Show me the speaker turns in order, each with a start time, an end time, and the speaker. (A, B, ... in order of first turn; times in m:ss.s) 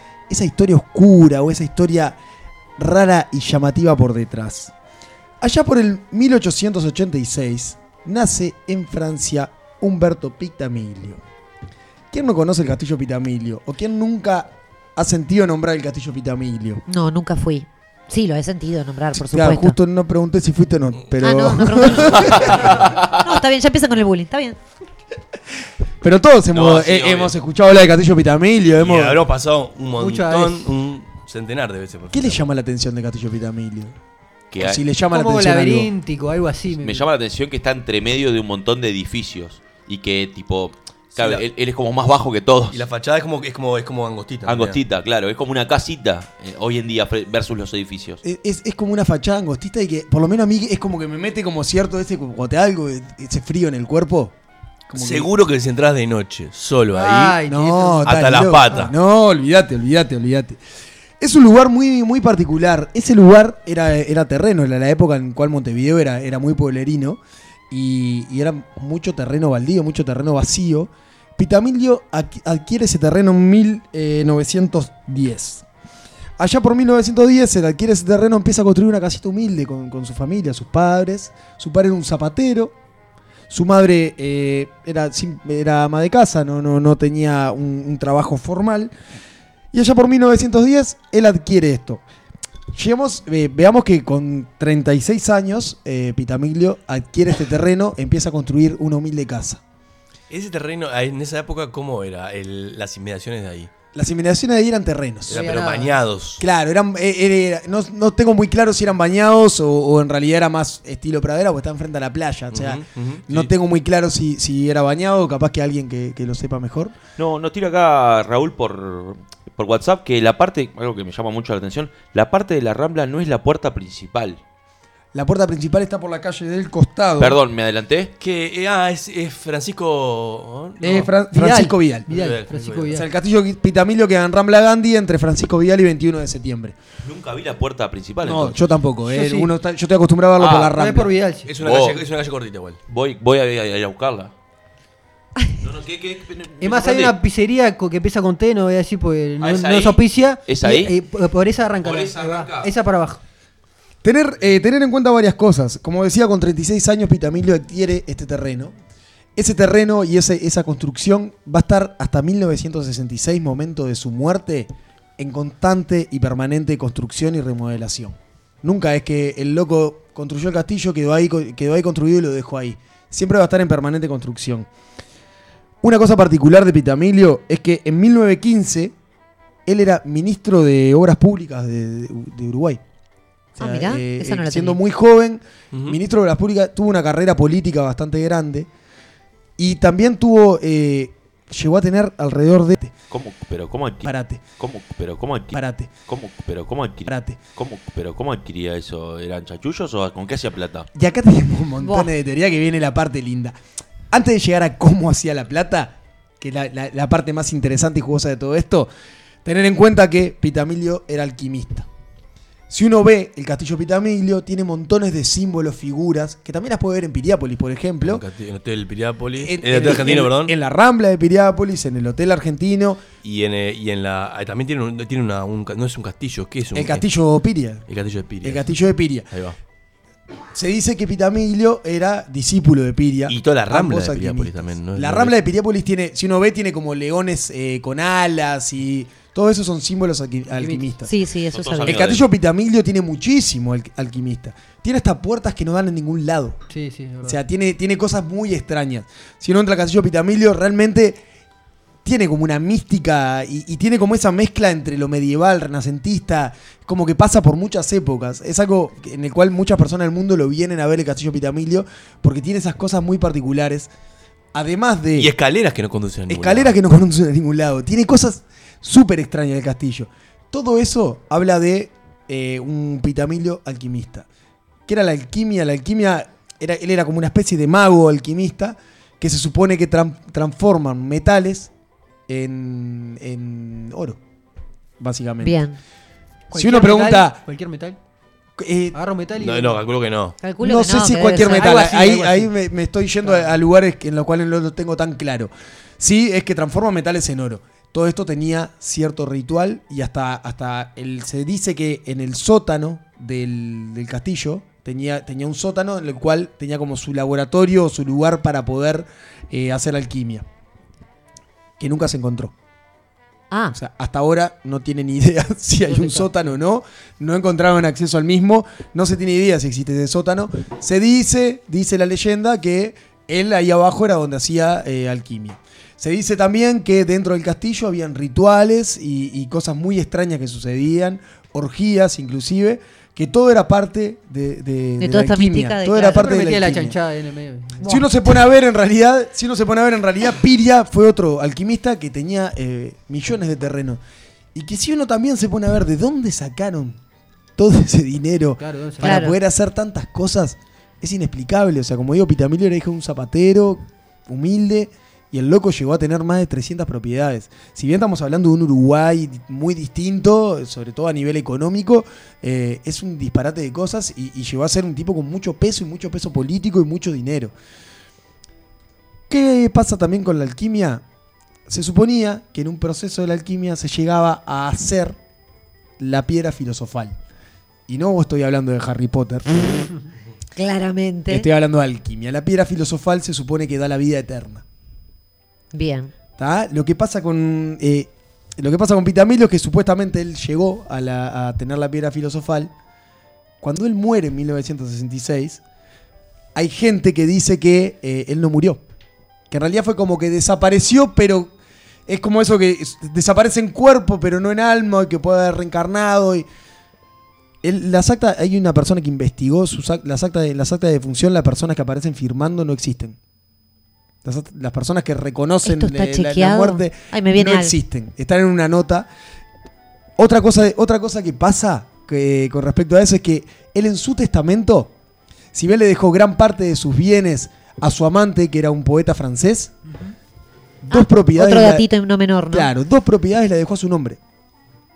0:00.3-0:02.2 A
0:02.8-0:04.7 A
0:05.4-0:11.2 A
0:12.1-0:16.8 A
0:16.9-0:19.8 B
0:19.2-0:22.7 A
0:21.2-0:24.6 B
0:22.4-0:23.1 C
0:26.0-0:29.2 A
0:26.5-0:27.3 C
0:28.8-0:32.4 D
0:30.0-0:30.7 E
0:32.1-0:34.0 A
0:34.5-0:34.8 C
0:34.6-0:35.9 A
0:35.1-0:37.1 E
0:36.8-0:42.8 C
0:41.2-0:41.4 D
0:42.7-0:44.8 D
0:44.5-0:48.2 C
0:48.2-0:54.3 A
0:54.9-0:55.3 A
0:55.0-0:57.4 D
0:56.9-0:58.4 E
0:57.4-1:00.6 A
0:58.0-0:58.9 D
1:01.2-1:15.6 A
1:16.4-1:22.7 A
1:23.5-1:28.9 A
1:29.7-1:32.0 A
1:32.7-1:39.6 A
1:40.3-1:43.7 D
1:43.9-1:45.6 A
1:45.3-1:46.4 D
1:45.3-1:46.0 E
1:46.4-1:57.0 A
1:52.5-1:53.5 D
1:57.2-2:04.4 C
2:05.1-2:07.4 A
2:07.2-2:08.1 C
2:08.2-2:11.1 D
2:10.8-2:12.1 A
2:10.9-2:13.0 E
2:12.1-2:13.0 D
2:12.9-2:16.8 A
2:17.0-2:18.6 C
2:18.2-2:21.1 A
2:19.1-2:19.5 E
2:20.4-2:20.8 C
2:20.8-2:21.5 E
2:21.4-2:22.8 D
2:21.6-2:22.0 C
2:22.9-2:24.3 C
2:25.6-2:27.2 C
2:26.6-2:33.2 E
2:29.4-2:31.0 C
2:31.8-2:32.7 C
2:34.0-2:38.7 A
2:39.4-2:54.7 A
2:55.8-2:58.9 A
2:59.7-3:02.8 A
3:03.6-3:08.7 A
3:03.6-3:04.8 B
3:05.7-3:06.0 D
3:09.6-3:12.9 A
3:13.1-3:20.9 C
3:14.0-3:14.4 A
3:15.5-3:15.9 A
3:17.1-3:17.4 A
3:20.9-3:23.6 A
3:21.8-3:22.1 B
3:24.1-3:28.9 A
3:29.4-3:31.9 A
3:32.7-3:38.2 A
3:38.0-3:40.5 D
3:39.4-3:43.0 A
3:43.2-3:47.0 D
3:46.8-3:47.9 A
3:47.9-3:48.6 D
3:48.4-3:49.3 A
3:49.3-3:49.6 D
3:50.5-4:01.1 A
3:53.3-3:55.4 D
4:00.5-4:00.8 E
4:01.0-4:02.2 B
4:01.5-4:02.2 C
4:01.9-4:06.6 A
4:06.7-4:07.4 E
4:07.2-4:11.2 A
4:12.0-4:23.9 A
4:24.5-4:25.3 A
4:25.2-4:26.8 D
4:26.3-4:34.3 A
4:34.9-4:41.7 A
4:42.3-4:44.2 A
4:45.0-4:45.6 A
4:45.4-4:45.8 B
4:46.5-4:47.4 A
4:46.5-4:48.0 E
4:48.6-4:49.0 A
4:48.9-4:49.8 E
4:49.4-4:50.4 D
4:50.4-4:51.8 B
4:50.6-5:10.4 A
4:51.3-4:52.5 E
4:53.2-4:53.5 E
5:11.8-5:12.5 A
5:13.7-5:37.0 A
5:35.0-5:36.2 B
5:36.1-5:37.9 E
5:37.8-5:44.0 A
5:44.6-5:47.0 A
5:47.6-6:07.5 A
5:48.6-5:49.3 E
5:49.0-5:49.3 B
6:09.3-6:11.0 A
6:11.7-6:15.2 A
6:16.0-6:17.2 A
6:17.9-6:19.9 A
6:20.6-6:21.5 B
6:21.3-6:24.6 A
6:25.7-6:26.1 B
6:26.4-6:32.7 A
6:33.6-6:35.6 A
6:36.6-6:38.8 A
6:39.5-6:41.5 A
6:42.1-6:46.5 A
6:47.6-6:53.2 A
6:54.2-6:59.1 A
6:55.6-6:57.8 B
7:00.2-7:04.9 A
7:05.5-7:09.7 A
7:10.8-7:11.9 A
7:10.9-7:12.7 B
7:12.5-7:14.2 A